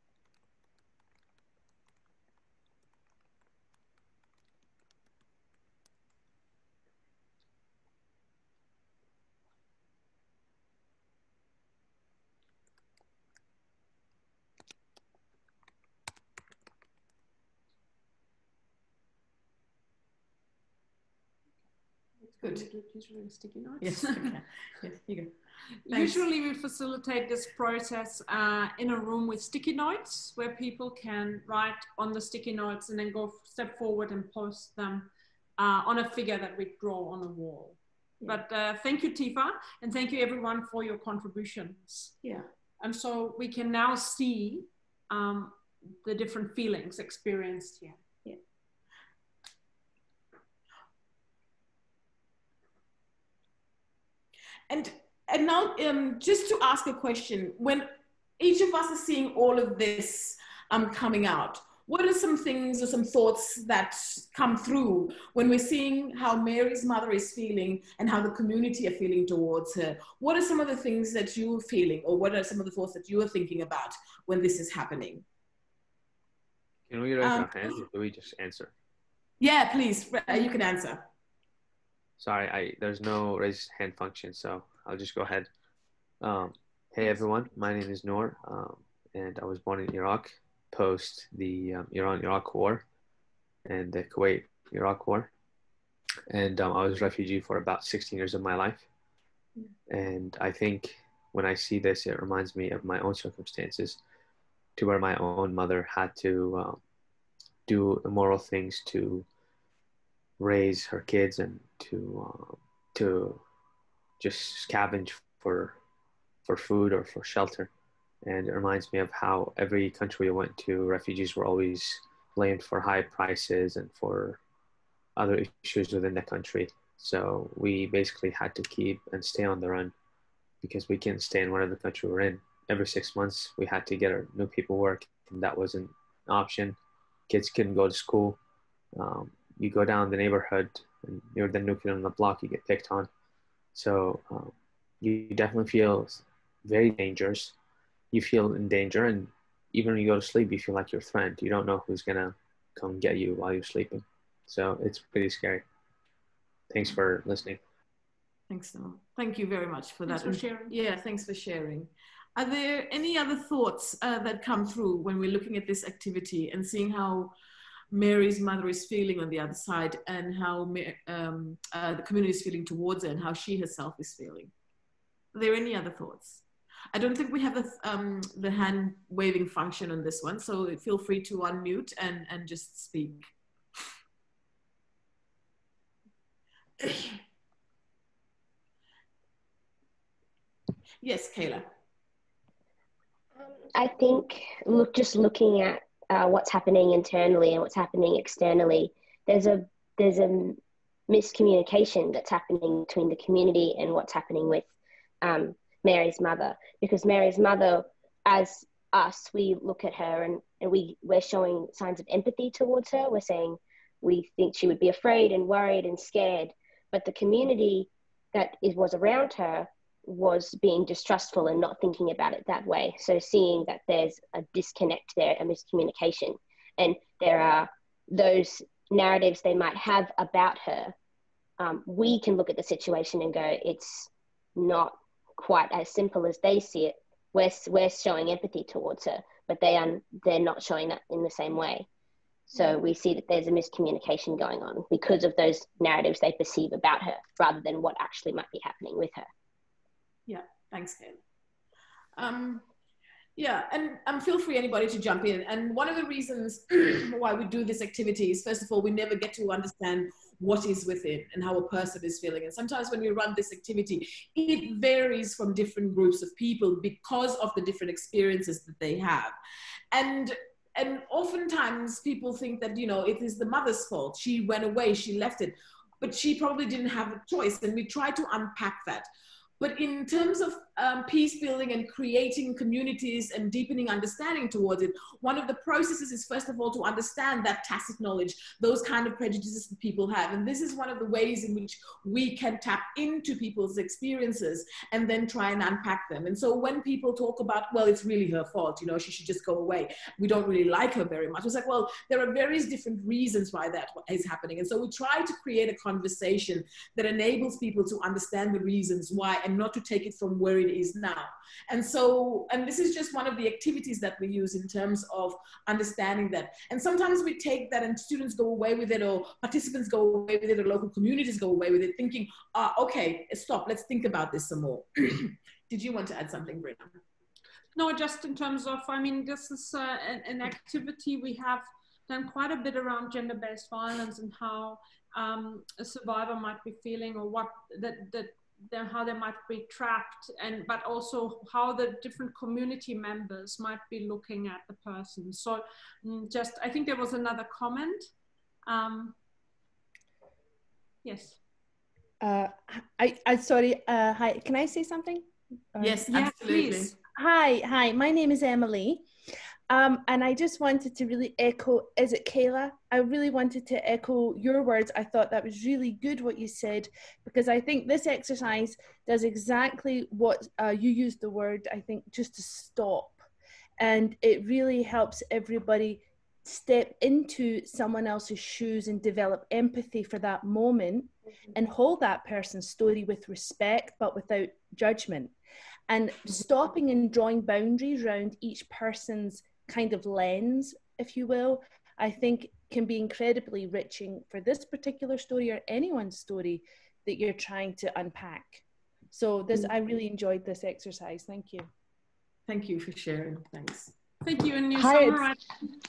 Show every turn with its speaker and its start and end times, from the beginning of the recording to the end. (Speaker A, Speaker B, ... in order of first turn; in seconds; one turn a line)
Speaker A: 22.2-24.4
Speaker B: 22.4-22.7
Speaker B: 23.8-25.3
Speaker B: 25.9-26.2
Speaker A: 25.9-42.1
Speaker A: 42.8-48.0
Speaker B: 54.7-57.9
Speaker B: 58.4-75.2
Speaker C: 76.9-78.7
Speaker B: 77.2-77.8
Speaker B: 79.4-81.0
Speaker C: 82.2-85.5
Speaker C: 86.2-92.8
Speaker C: 93.7-95.3
Speaker C: 96.3-98.9
Speaker C: 99.9-104.0
Speaker C: 104.8-106.8
Speaker C: 107.7-109.3
Speaker C: 110.4-113.4
Speaker C: 114.2-115.8
Speaker C: 116.5-117.7
Speaker C: 118.2-124.4
Speaker C: 125.2-129.9
Speaker C: 130.6-136.8
Speaker C: 137.3-138.4
Speaker C: 139.0-143.1
Speaker C: 143.8-147.5
Speaker C: 148.1-155.7
Speaker C: 156.7-157.6
Speaker B: 158.5-167.3
Speaker A: 160.1-160.7
Speaker B: 167.9-174.5
Speaker B: 175.3-183.3
Speaker B: 186.8-187.2
Speaker B: 191.0-191.7
Speaker D: 193.4-204.7
Speaker D: 205.2-230.9
Speaker D: 231.6-241.9
Speaker D: 242.5-249.3
Speaker B: 250.3-251.2
Speaker B: 252.2-252.6
Speaker B: 253.4-269.4
Speaker B: 269.9-279.1
Speaker B: 279.6-327.0
Speaker A: 327.8-348.1
Speaker A: 348.7-349.1
Speaker A: 351.0-351.4
Speaker E: 352.2-356.1
Speaker B: 355.8-356.9
Speaker A: 356.1-356.9
Speaker E: 357.1-359.1
Speaker E: 359.7-373.3
Speaker E: 373.8-385.3
Speaker E: 385.9-401.7
Speaker B: 402.5-403.9
Speaker A: 404.2-405.4